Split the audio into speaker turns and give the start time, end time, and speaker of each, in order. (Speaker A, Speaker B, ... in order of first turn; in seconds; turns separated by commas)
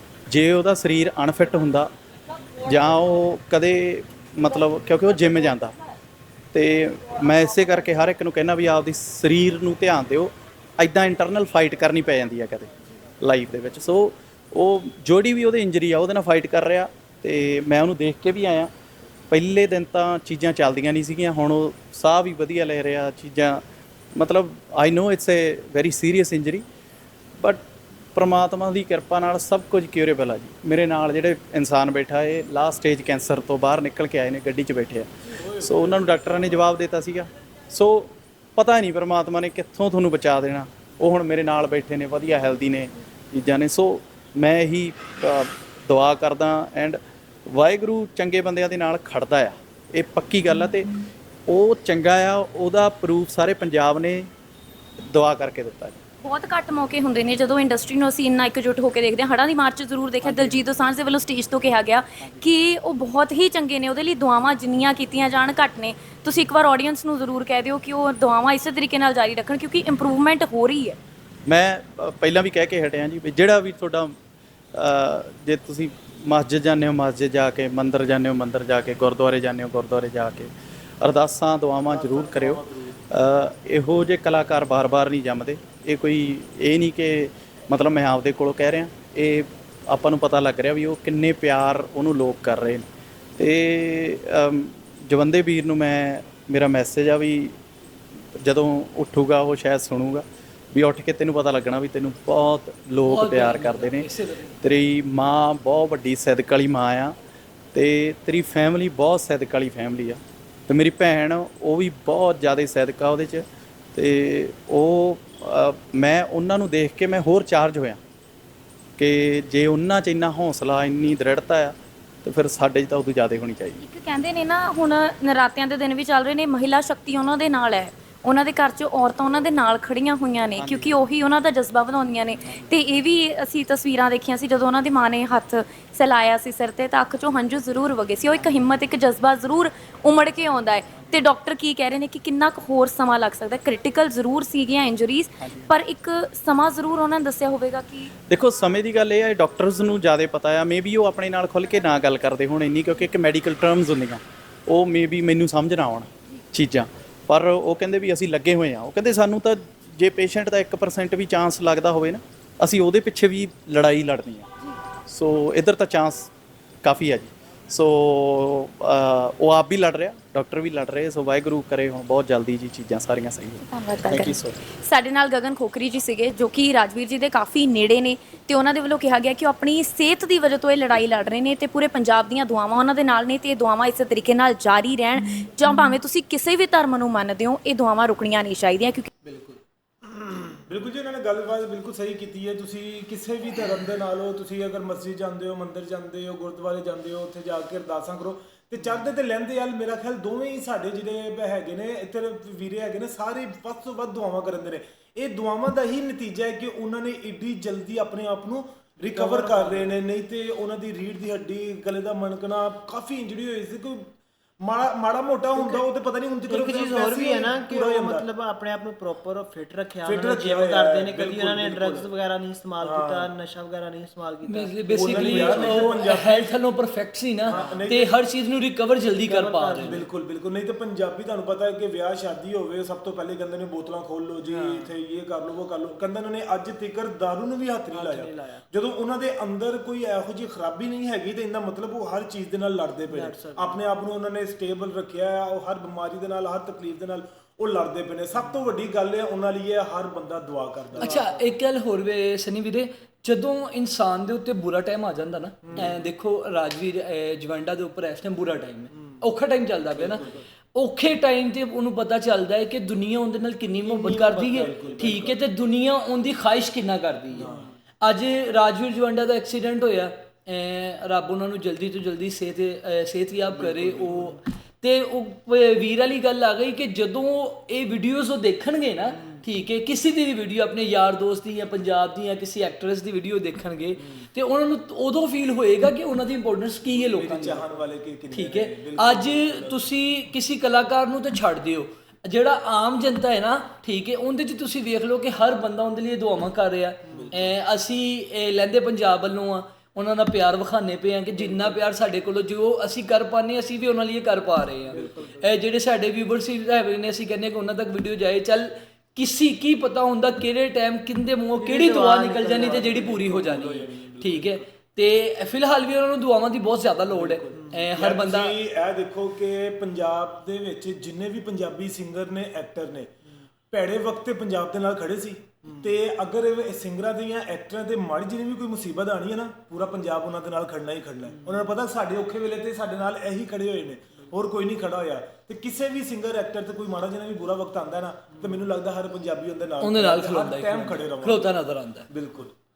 Speaker A: 0.3-1.9, Speaker A: 2.6-5.8, Speaker A: 6.5-12.7, Speaker A: 13.2-18.7, Speaker A: 19.3-23.6, Speaker A: 24.1-26.6, Speaker A: 27.4-27.6, Speaker A: 28.1-50.9, Speaker B: 35.4-36.6, Speaker A: 51.5-54.3, Speaker A: 55.0-56.0, Speaker C: 56.2-71.0, Speaker A: 71.5-74.2, Speaker A: 74.7-92.9, Speaker B: 81.8-82.9, Speaker A: 93.4-97.5, Speaker A: 98.3-104.1, Speaker D: 103.0-104.6, Speaker A: 104.6-107.2, Speaker A: 107.7-118.0, Speaker A: 119.0-123.8, Speaker C: 123.8-148.1, Speaker A: 130.6-131.1, Speaker A: 145.4-145.7, Speaker A: 148.3-164.5, Speaker A: 165.1-166.3, Speaker A: 166.8-174.6, Speaker C: 173.6-189.1, Speaker B: 189.2-218.2, Speaker E: 209.0-209.9, Speaker E: 215.5-215.8, Speaker E: 216.5-226.0, Speaker B: 220.1-222.1, Speaker B: 222.8-223.3, Speaker D: 224.5-230.0, Speaker B: 224.9-226.6, Speaker E: 227.5-227.8, Speaker B: 227.5-228.2, Speaker E: 229.3-230.1, Speaker B: 229.9-251.2, Speaker E: 234.5-234.9, Speaker E: 237.9-238.6, Speaker E: 243.1-243.8, Speaker D: 251.0-287.7, Speaker E: 251.0-251.4, Speaker B: 255.6-256.0, Speaker B: 259.9-260.4, Speaker E: 263.9-265.2, Speaker B: 264.4-265.4, Speaker B: 267.4-267.6, Speaker B: 286.9-289.8, Speaker D: 288.3-318.6, Speaker E: 297.1-297.3, Speaker B: 297.1-297.5, Speaker E: 301.4-301.8, Speaker E: 304.9-305.5, Speaker E: 311.6-313.7, Speaker B: 312.6-314.6, Speaker B: 317.1-323.1, Speaker B: 323.7-341.5, Speaker E: 331.4-331.7, Speaker D: 339.8-342.1, Speaker B: 342.1-342.5